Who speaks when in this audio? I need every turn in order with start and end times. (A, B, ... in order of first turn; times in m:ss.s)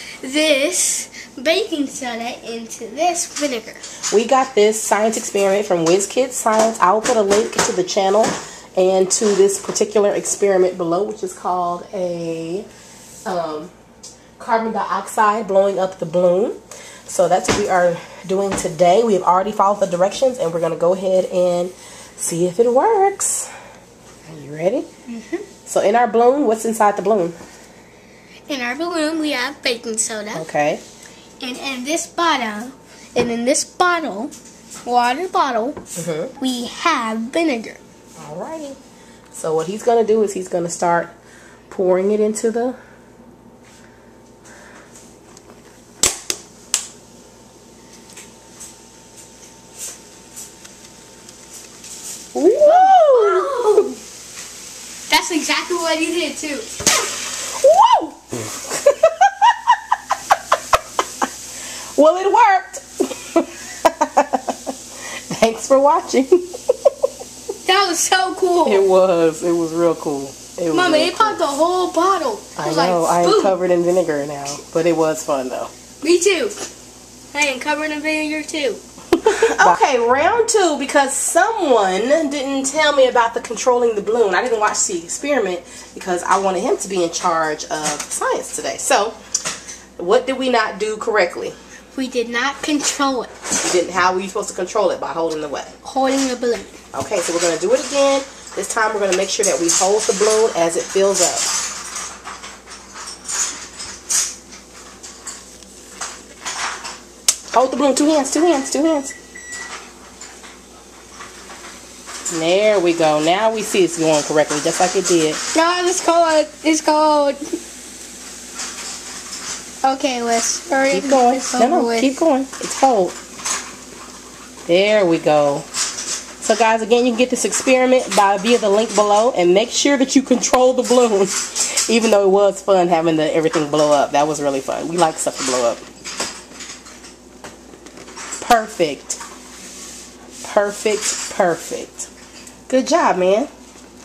0:00.2-0:03.8 A
0:04.1-0:12.7 B
0:13.2-0:13.7 B
0:14.4-0:23.5 B
0:24.3-0:24.9 B
0:25.1-0:25.5 A
0:25.7-0:27.4 B
0:28.5-0:30.5 A
0:30.3-0:30.8 B
0:31.4-0:34.3 A
0:34.8-0:35.8 A
0:36.0-0:36.3 B
0:36.4-0:37.8 A
0:38.2-0:38.8 B
0:39.3-0:41.1 B
0:41.7-0:42.8 B
0:52.4-0:53.8 B
0:52.6-0:54.0 A
0:55.1-0:56.7 A
0:57.5-0:59.8 B
1:02.0-1:04.7 B
1:05.3-1:06.4 B
1:07.6-1:08.9 A
1:08.6-1:11.4 B
1:10.7-1:13.6 A
1:12.6-1:15.7 B
1:16.0-1:16.6 A
1:17.3-1:18.8 A
1:19.1-1:29.2 B
1:30.0-1:31.6 B
1:31.9-1:33.3 A
1:33.6-1:35.8 B
1:35.8-1:36.8 A
1:36.9-1:41.5 B
1:47.5-1:49.2 B
1:52.3-1:55.4 B
1:55.5-1:57.4 A
1:59.8-2:02.2 A
2:00.9-2:03.2 B
2:04.7-2:05.7 B
2:06.4-2:15.8 B
2:18.4-2:19.2 B
2:20.4-2:22.1 B
2:22.7-2:23.5 B